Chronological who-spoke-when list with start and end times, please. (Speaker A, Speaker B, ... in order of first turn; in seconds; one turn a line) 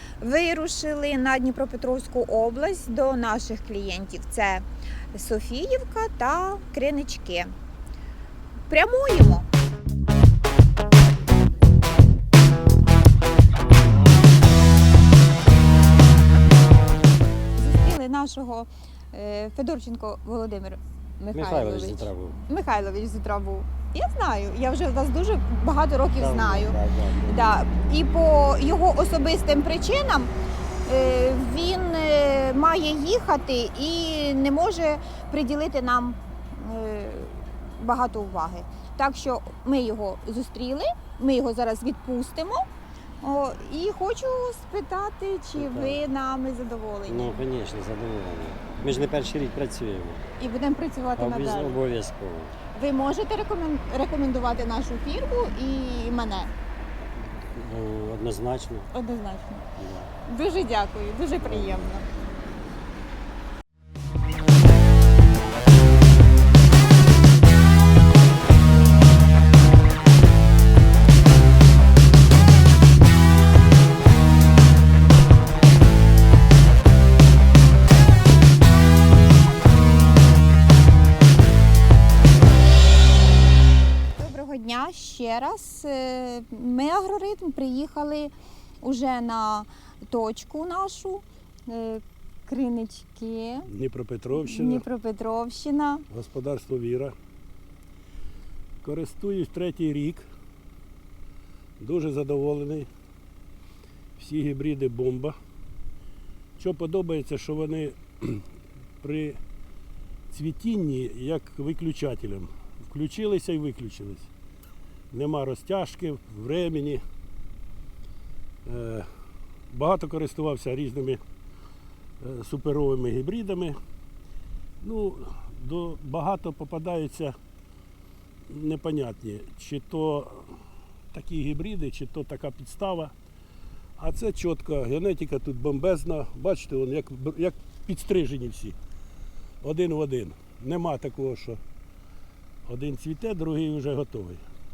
Speaker A: 0.2-7.5
Speaker A: 8.7-9.5
Speaker A: 17.6-30.3
Speaker B: 21.3-22.4
Speaker B: 26.2-27.4
Speaker A: 30.9-42.7
Speaker A: 43.2-47.4
Speaker B: 45.5-46.0
Speaker B: 47.1-50.2
Speaker A: 50.4-51.8
Speaker B: 51.1-52.6
Speaker A: 52.7-56.5
Speaker B: 57.4-58.9
Speaker A: 58.9-59.7
Speaker B: 59.8-60.1
Speaker A: 60.2-62.0
Speaker B: 61.4-61.9
Speaker A: 84.2-93.7
Speaker C: 93.7-94.8
Speaker A: 94.3-96.0
Speaker C: 96.1-97.1
Speaker C: 98.8-100.3
Speaker C: 101.8-102.9
Speaker C: 104.2-105.4
Speaker C: 106.6-108.4
Speaker C: 109.0-109.4
Speaker C: 110.3-114.3
Speaker C: 115.1-117.0
Speaker C: 118.7-119.1
Speaker C: 119.7-121.2
Speaker C: 122.2-123.8
Speaker C: 124.8-127.3
Speaker C: 128.5-130.6
Speaker C: 131.1-133.1
Speaker C: 134.0-138.8
Speaker C: 139.6-141.6
Speaker C: 142.7-144.4